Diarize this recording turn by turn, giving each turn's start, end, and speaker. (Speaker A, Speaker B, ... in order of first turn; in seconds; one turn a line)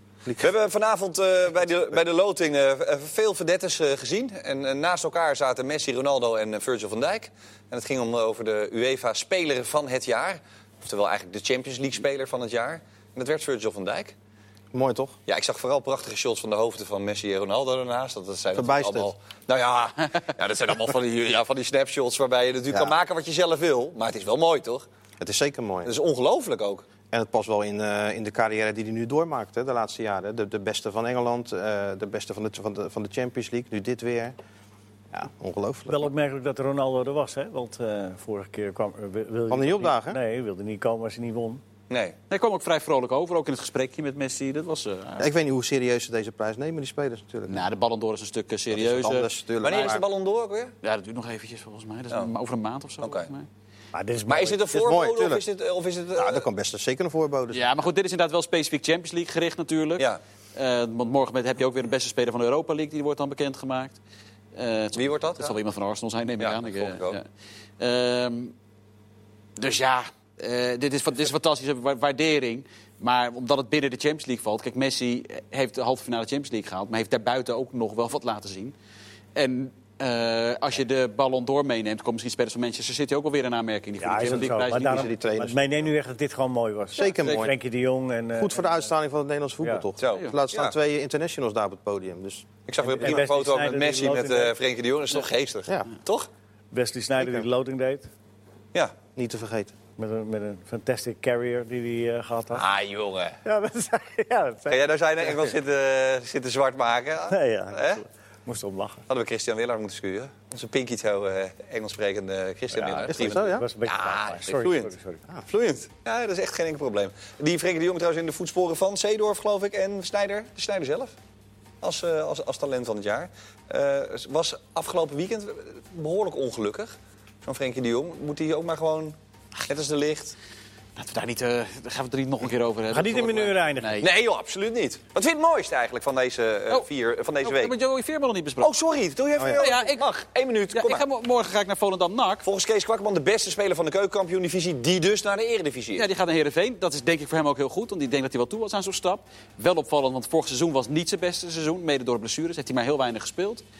Speaker A: 0.2-0.5
Speaker B: 0.4-14.1
Speaker A: 14.7-15.1
Speaker B: 15.3-24.9
Speaker A: 18.5-19.1
Speaker A: 22.7-22.9
Speaker A: 25.2-25.9
Speaker B: 25.8-26.9
Speaker A: 27.1-34.3
Speaker A: 35.1-36.1
Speaker C: 35.9-41.6
Speaker A: 39.5-40.2
Speaker B: 41.9-42.1
Speaker D: 42.3-45.3
Speaker A: 45.2-47.6
Speaker D: 47.5-50.0
Speaker A: 48.7-50.0
Speaker B: 49.6-50.7
Speaker D: 50.8-53.5
Speaker B: 53.0-53.3
Speaker C: 53.9-54.7
Speaker B: 54.3-56.4
Speaker A: 54.7-55.4
Speaker A: 56.2-57.8
Speaker D: 57.5-64.0
Speaker D: 64.5-67.2
Speaker B: 65.0-65.6
Speaker B: 66.4-67.2
Speaker D: 67.8-68.5
Speaker D: 69.6-78.7
Speaker D: 79.3-85.1
Speaker C: 84.0-88.9
Speaker A: 84.2-85.6
Speaker A: 86.9-87.5
Speaker A: 88.3-92.5
Speaker B: 90.0-90.7
Speaker B: 92.7-96.3
Speaker C: 92.8-94.5
Speaker C: 96.7-98.1
Speaker A: 97.2-97.5
Speaker A: 99.1-99.7
Speaker C: 100.0-102.6
Speaker B: 102.5-103.4
Speaker C: 103.4-104.8
Speaker B: 104.7-108.0
Speaker C: 107.3-109.0
Speaker B: 109.1-114.9
Speaker C: 112.7-115.2
Speaker A: 113.1-113.6
Speaker B: 115.5-121.1
Speaker B: 121.8-130.3
Speaker D: 130.9-134.1
Speaker C: 132.9-134.0
Speaker B: 134.0-137.7
Speaker D: 137.4-138.7
Speaker B: 138.6-141.0
Speaker D: 139.5-140.1
Speaker D: 140.7-142.4
Speaker B: 142.4-146.1
Speaker D: 145.9-153.6